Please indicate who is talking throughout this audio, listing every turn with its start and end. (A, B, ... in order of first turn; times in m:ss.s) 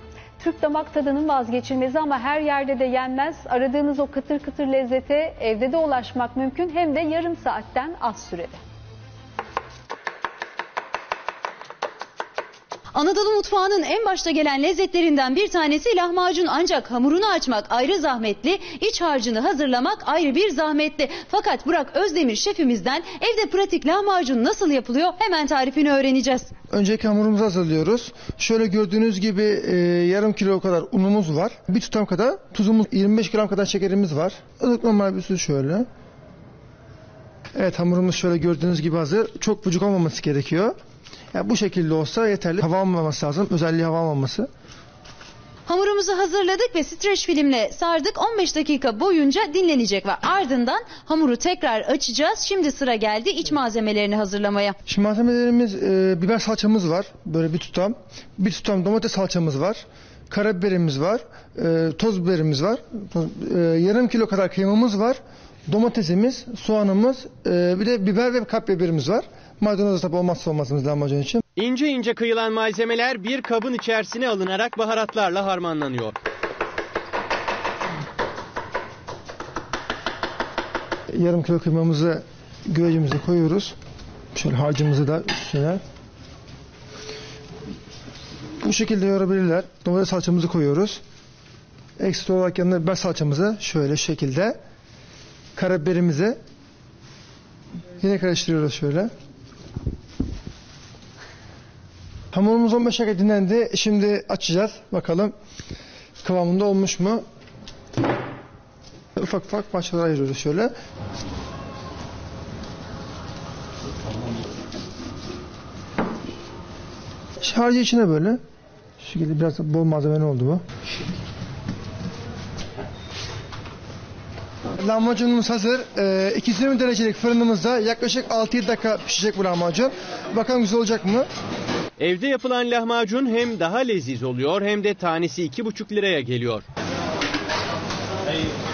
0:00.4-0:08.6 A
0:12.9-0:26.5 B
0:26.7-0:35.9 C
0:37.6-0:40.8 C
0:41.3-0:44.5 C
0:45.7-0:54.8 B
0:54.9-1:11.4 C
1:11.6-1:16.2 D
1:21.1-1:23.8 C
1:24.3-1:25.8 C
1:28.6-1:31.0 C
1:32.0-1:34.6 C
1:35.6-1:36.4 C
1:38.0-1:39.1 C
1:42.3-1:45.3 C
1:46.2-1:47.2 C
1:49.2-1:50.7 C
1:57.4-1:58.4 C
1:59.0-2:00.6 C
2:04.8-2:11.3 C
2:12.0-2:16.6 D